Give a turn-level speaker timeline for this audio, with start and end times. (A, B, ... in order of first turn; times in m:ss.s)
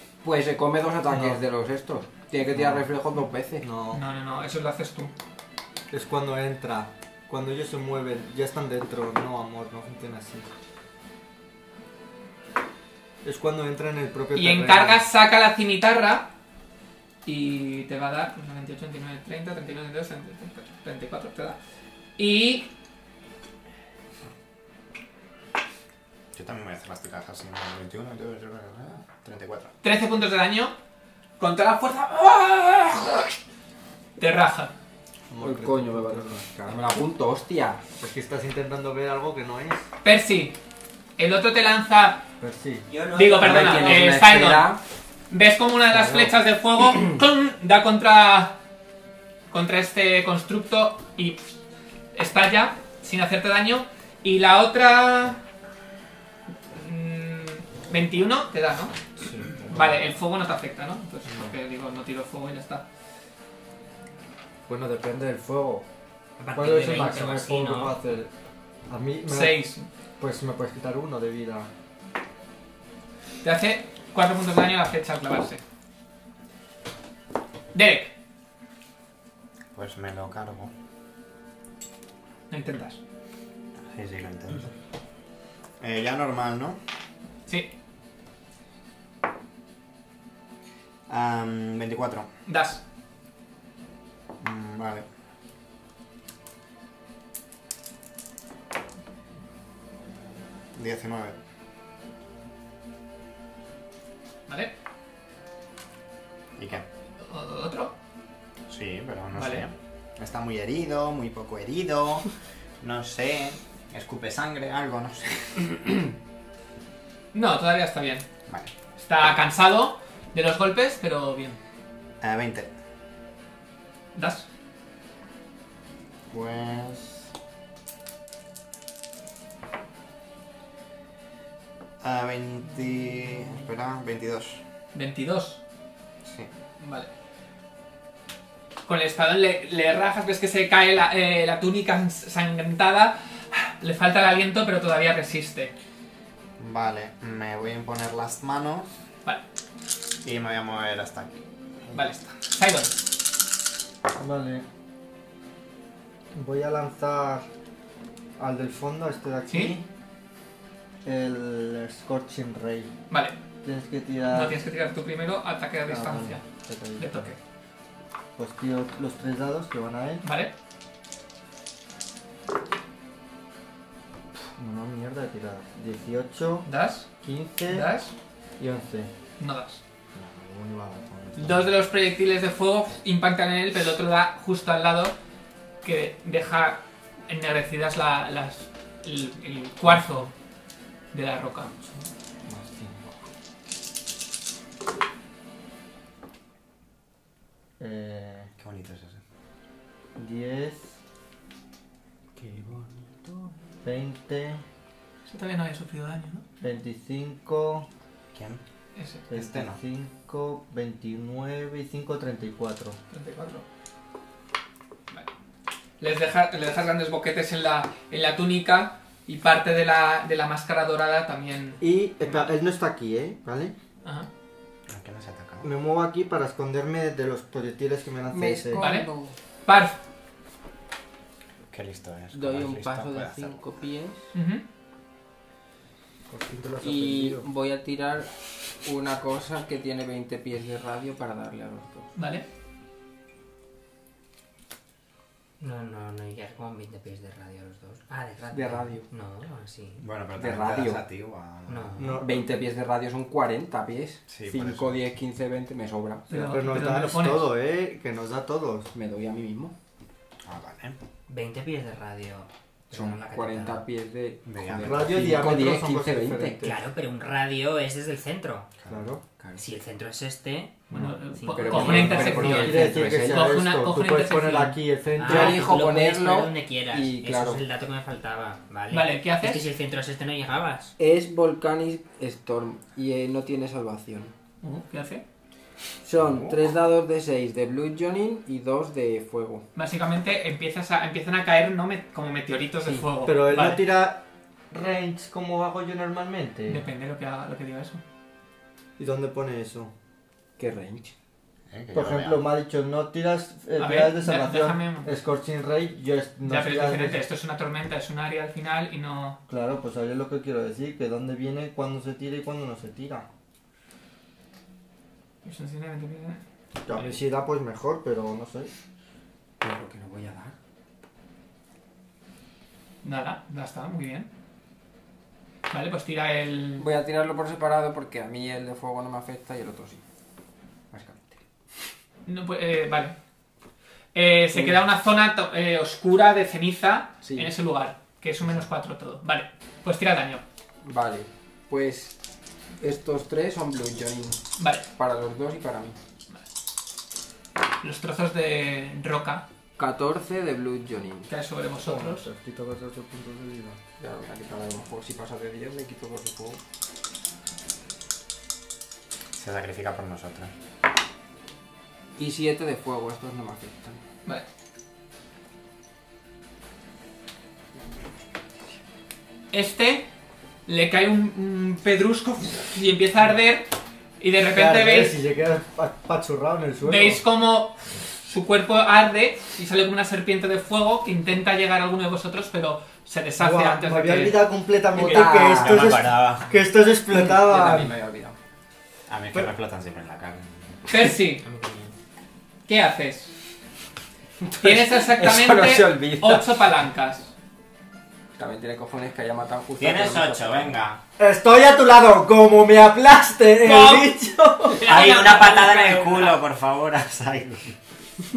0:00.2-0:03.6 A
0:01.1-0:01.4 B
0:02.5-0:02.9 B
0:03.6-0:04.0 B
0:03.9-0:05.1 C
0:05.9-0:10.5 B
0:13.2-0:15.0 B
0:14.3-0:16.3 C
0:17.2-0:21.6 C
0:22.2-0:22.7 C
0:26.3-0:29.7 D
0:29.8-0:30.7 C
0:31.4-0:33.4 C
0:34.2-0:34.7 C
0:35.3-0:36.5 B
0:35.4-0:37.8 A
0:38.0-0:39.8 B
0:40.0-0:40.6 C
0:41.2-0:42.2 C
0:42.4-0:42.9 B
0:42.9-0:44.1 E
0:43.1-0:44.8 C
0:43.4-0:44.8 A
0:45.3-0:48.6 C
0:45.9-0:46.3 B
0:49.5-0:51.4 C
0:52.1-0:55.4 C
0:56.7-0:59.0 C
0:59.7-1:02.8 C
1:04.7-1:05.8 B
1:06.4-1:08.0 E
1:06.5-1:08.3 B
1:08.9-1:09.6 B
1:09.3-1:09.9 C
1:10.2-1:11.7 B
1:13.4-1:15.6 C
1:17.7-1:18.1 C
1:19.7-1:20.7 D
1:22.5-1:23.0 C
1:23.8-1:24.7 D
1:25.8-1:26.8 D
1:27.5-1:27.7 C
1:31.1-1:32.3 D
1:32.4-1:32.8 C
1:34.4-1:35.0 D
1:40.7-1:41.4 D
1:44.5-1:44.7 C
1:46.6-1:46.8 D
1:47.2-1:47.9 C
1:48.7-1:52.3 D
1:49.3-1:49.6 C
1:52.8-1:56.0 D
1:57.3-1:58.2 C
1:59.0-2:01.6 C
2:02.2-2:02.7 D
2:04.1-2:04.4 C
2:06.3-2:07.3 D
2:12.0-2:14.6 D
2:14.9-2:15.6 C
2:16.2-2:16.5 D
2:16.8-2:17.1 C
2:18.8-2:25.7 C
2:26.6-2:28.9 D
2:30.2-2:32.1 D
2:31.9-2:32.9 C
2:34.2-2:34.6 B
2:36.3-2:37.5 B
2:38.4-2:39.8 B
2:39.5-2:39.8 C
2:41.0-2:42.9 B
2:43.1-2:43.4 C
2:43.6-2:44.6 B
2:44.3-2:46.4 C
2:45.9-2:47.3 B
2:47.0-2:47.4 C
2:48.4-2:50.2 B
2:50.2-2:50.5 C
2:54.6-2:56.7 B
2:56.6-2:57.1 C
2:57.2-2:57.9 B
2:57.7-2:58.1 C
2:58.6-2:59.1 B
2:59.4-2:59.8 C
3:00.1-3:01.7 B
3:01.4-3:05.1 C
3:05.8-3:10.3 C
3:11.1-3:12.0 C
3:12.4-3:13.2 B
3:17.8-3:18.5 B
3:18.6-3:19.2 D
3:20.2-3:21.0 B
3:22.4-3:23.5 A
3:23.8-3:24.6 B
3:25.3-3:26.4 C
3:26.6-3:27.9 B
3:28.3-3:28.6 D
3:29.0-3:29.2 C
3:29.3-3:33.0 B
3:29.3-3:29.8 D
3:33.1-3:33.6 C
3:36.0-3:42.5 C
3:41.8-3:43.7 B
3:44.0-3:44.3 C
3:44.9-3:45.7 D
3:45.6-3:48.8 B
3:48.3-3:49.3 A
3:48.8-3:49.1 C
3:49.6-3:50.0 C
3:51.7-3:53.6 D
3:52.3-3:54.3 A
3:54.3-3:54.6 C
3:56.3-3:57.5 B
3:56.8-4:02.1 A
4:02.2-4:02.4 C
4:05.6-4:10.0 E
4:08.5-4:09.0 A
4:10.0-4:12.2 D
4:10.4-4:11.0 A
4:11.7-4:12.2 E
4:12.0-4:12.4 B
4:12.2-4:16.3 A
4:14.3-4:15.0 D
4:16.3-4:17.5 C
4:16.3-4:18.9 B
4:18.9-4:19.7 A
4:20.4-4:21.0 D
4:21.3-4:23.8 E
4:22.9-4:26.6 A
4:24.4-4:25.5 D
4:24.8-4:26.8 B
4:26.6-4:28.7 E
4:28.9-4:29.2 B
4:29.4-4:29.7 A
4:29.6-4:32.8 E
4:30.9-4:31.2 B
4:30.9-4:34.8 C
4:31.5-4:33.5 A
4:31.8-4:35.7 B
4:35.2-4:40.9 E
4:35.2-4:37.6 A
4:38.9-4:39.6 C
4:41.0-4:44.3 A
4:44.6-4:45.2 C
4:46.0-4:49.6 A
4:46.2-4:46.5 D
4:49.7-4:53.8 C
4:53.2-4:56.8 B
4:56.7-4:58.0 C
4:59.0-4:59.9 B
5:00.6-5:01.1 A
5:01.7-5:02.4 D
5:01.9-5:07.2 B
5:03.8-5:05.1 C
5:06.4-5:09.4 C
5:09.5-5:13.2 B
5:15.4-5:16.4 C
5:16.8-5:18.7 B
5:19.6-5:20.5 A
5:23.0-5:24.3 C
5:25.7-5:26.9 C
5:26.8-5:30.0 A
5:30.9-5:31.4 A
5:32.2-5:33.1 C
5:34.1-5:40.4 C
5:34.5-5:34.8 A
5:37.2-5:37.5 A
5:40.8-5:42.1 A
5:42.8-5:44.4 A
5:44.6-5:44.8 C
5:44.9-5:46.0 A
5:47.8-5:49.4 C
5:49.8-5:51.3 A
5:51.3-5:52.3 C
5:51.8-5:53.8 B
5:54.0-5:56.6 A
5:59.3-6:00.5 D
6:02.2-6:04.0 A
6:09.5-6:10.1 C
6:10.6-6:13.7 C
6:14.2-6:15.2 C
6:14.5-6:17.2 B
6:16.8-6:24.5 C
6:23.4-6:28.0 B
6:24.9-6:26.0 A
6:25.0-6:26.5 D
6:27.1-6:28.4 A
6:29.1-6:30.9 D
6:30.9-6:31.4 C
6:31.4-6:31.9 E
6:32.7-6:33.3 C
6:34.4-6:36.5 A
6:34.6-6:37.3 C
6:38.4-6:40.8 A
6:39.8-6:41.0 D
6:41.2-6:44.9 B
6:43.6-6:44.1 C
6:44.7-6:46.3 E
6:44.8-6:47.8 D
6:44.8-6:45.4 C